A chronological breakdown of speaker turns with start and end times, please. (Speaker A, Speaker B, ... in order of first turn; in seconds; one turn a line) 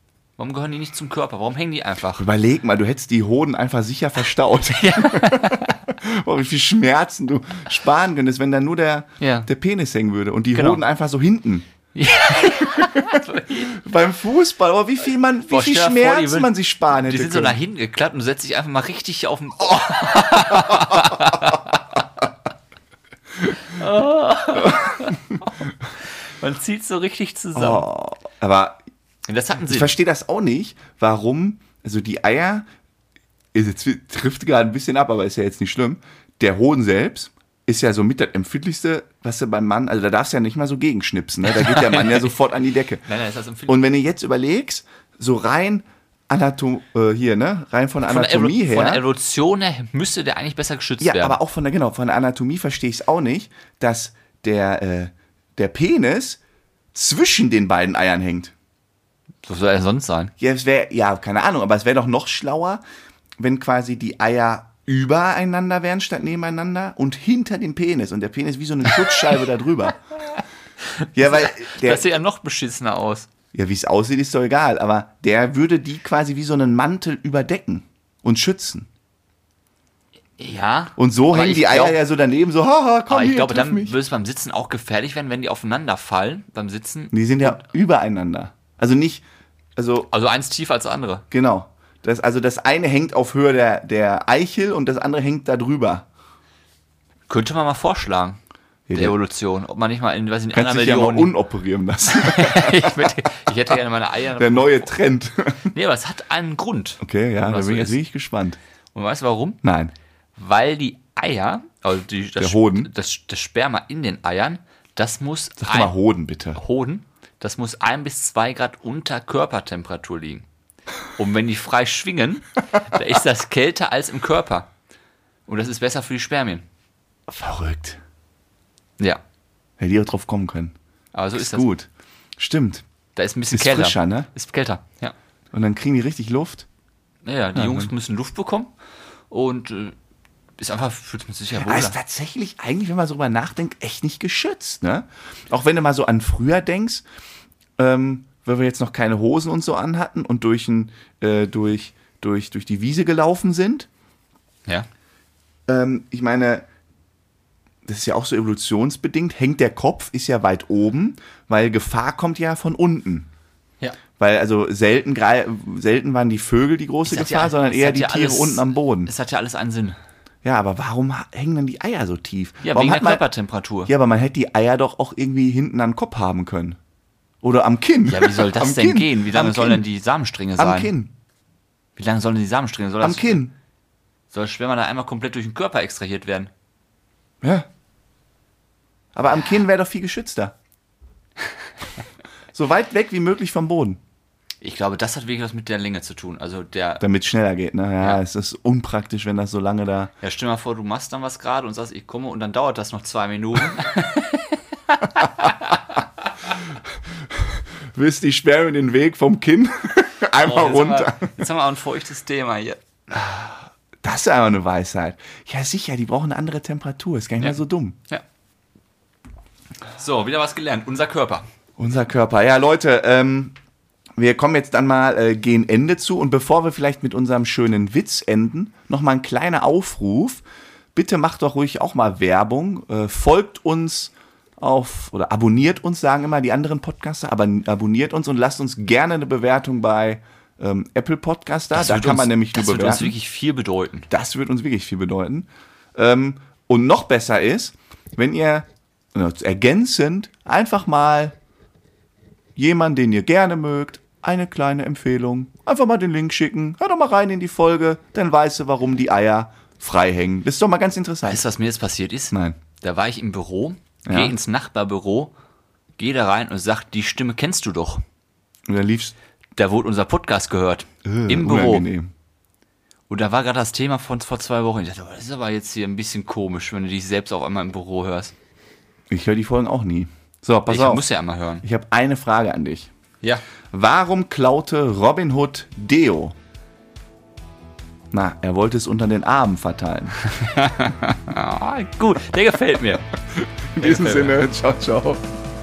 Speaker A: 0.4-2.2
Speaker B: 2.2-11.7
Speaker A: 4.8-5.8
Speaker A: 9.2-9.5
Speaker A: 10.5-10.8
Speaker A: 11.9-13.8
Speaker B: 12.6-17.6
Speaker A: 15.5-22.0
Speaker A: 23.6-27.9
Speaker B: 27.6-28.8
Speaker A: 29.3-29.9
Speaker B: 29.6-32.7
Speaker B: 33.5-43.1
Speaker A: 41.5-42.3
Speaker A: 43.0-43.8
Speaker B: 43.7-49.0
Speaker A: 48.0-51.4
Speaker B: 51.0-56.4
Speaker B: 56.9-58.5
Speaker A: 59.4-60.3
Speaker B: 60.4-62.8
Speaker B: 63.4-70.0
Speaker A: 69.0-69.4
Speaker A: 70.4-73.3
Speaker B: 71.1-72.0
Speaker B: 73.5-78.9
Speaker A: 80.4-82.0
Speaker B: 81.0-84.0
Speaker A: 83.1-87.6
Speaker B: 87.1-89.2
Speaker B: 89.8-90.1
Speaker A: 90.1-91.2
Speaker B: 91.3-96.1
Speaker A: 97.3-98.4
Speaker B: 98.9-99.2
Speaker A: 98.9-101.3
Speaker B: 100.5-103.0
Speaker A: 102.1-104.9
Speaker B: 104.4-105.7
Speaker A: 105.7-108.0
Speaker B: 107.0-108.6
Speaker A: 108.9-109.6
Speaker B: 109.6-109.9
Speaker A: 110.4-115.9
Speaker B: 112.4-112.9
Speaker B: 115.6-116.6
Speaker A: 116.5-120.5
Speaker A: 121.2-124.7
Speaker A: 125.5-126.7
Speaker B: 127.3-128.0
Speaker B: 129.8-130.8
Speaker A: 131.1-131.7
Speaker B: 131.4-132.8
Speaker A: 133.2-135.2
Speaker B: 133.5-134.3
Speaker B: 135.5-136.7
Speaker A: 137.2-138.7
Speaker B: 137.6-137.9
Speaker A: 139.3-140.0
Speaker A: 140.6-141.9
Speaker B: 141.6-147.1
Speaker B: 147.8-153.9
Speaker B: 155.7-156.7
Speaker B: 157.9-163.3
Speaker B: 164.2-169.1
Speaker A: 167.1-170.0
Speaker B: 170.4-173.2
Speaker A: 172.6-173.9
Speaker B: 173.8-176.8
Speaker B: 177.4-179.8
Speaker A: 178.1-180.9
Speaker B: 180.6-181.1
Speaker A: 182.0-183.4
Speaker B: 183.0-183.5
Speaker A: 184.3-186.5
Speaker B: 187.4-187.7
Speaker B: 189.2-190.5
Speaker B: 192.5-194.0
Speaker A: 194.6-197.0
Speaker B: 197.0-200.1
Speaker A: 200.2-205.8
Speaker B: 207.3-211.4
Speaker A: 210.4-212.8
Speaker B: 214.0-218.0
Speaker A: 220.0-221.5
Speaker B: 221.8-223.6
Speaker B: 224.2-230.4
Speaker B: 230.9-243.1
Speaker A: 241.7-244.1
Speaker B: 244.1-251.3
Speaker B: 252.6-261.4
Speaker A: 261.3-265.3
Speaker B: 262.3-262.6
Speaker B: 264.1-264.4
Speaker A: 266.0-268.0
Speaker B: 268.7-269.1
Speaker A: 269.6-271.9
Speaker B: 271.1-272.1
Speaker A: 273.1-278.3
Speaker B: 279.1-281.0
Speaker A: 280.7-281.6
Speaker B: 281.6-282.9
Speaker B: 283.7-286.4
Speaker B: 288.1-290.2
Speaker A: 290.2-293.0
Speaker B: 293.4-295.2
Speaker A: 293.8-294.4